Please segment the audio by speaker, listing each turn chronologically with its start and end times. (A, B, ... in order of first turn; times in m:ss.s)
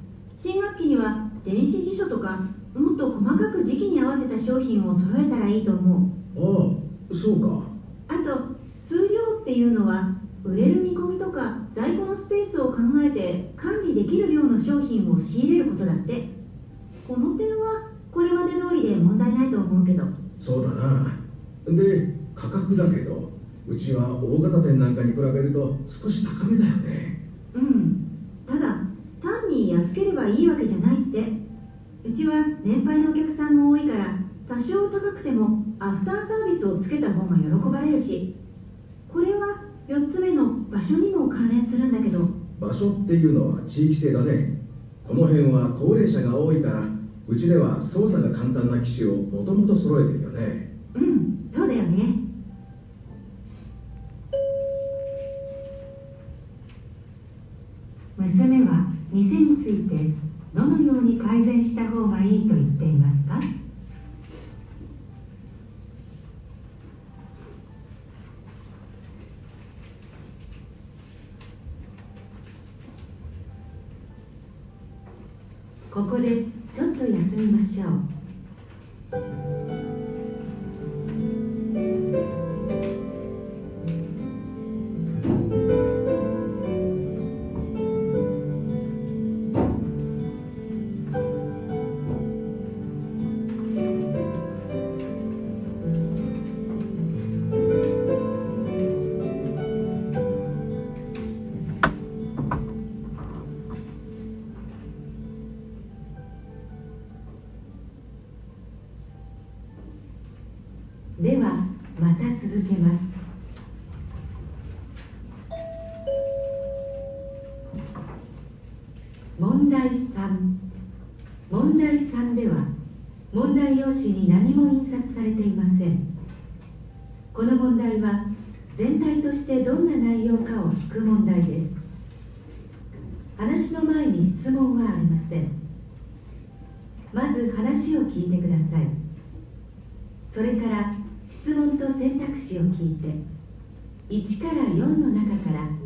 0:00.3-0:06.1 A
0:06.3-0:07.7 B
0:08.1-0:16.3 A
0:17.0-0:20.1 A
0:20.4-0:27.2 B
0:27.5-0:31.4 A
0:32.0-0:38.3 A
0:39.1-0:42.3 A
0:42.6-0:44.5 B
0:45.0-0:50.7 B
0:50.9-0:52.2 A
0:58.2-1:03.4 C
1:15.9-1:18.0 C
1:51.2-1:53.1 C
1:59.4-2:00.5 C
2:01.5-2:02.7 C
2:03.3-2:06.0 C
2:07.3-2:11.8 C
2:13.4-2:15.5 C
2:17.1-2:18.9 C
2:20.3-2:23.2 C
2:24.1-2:25.7 C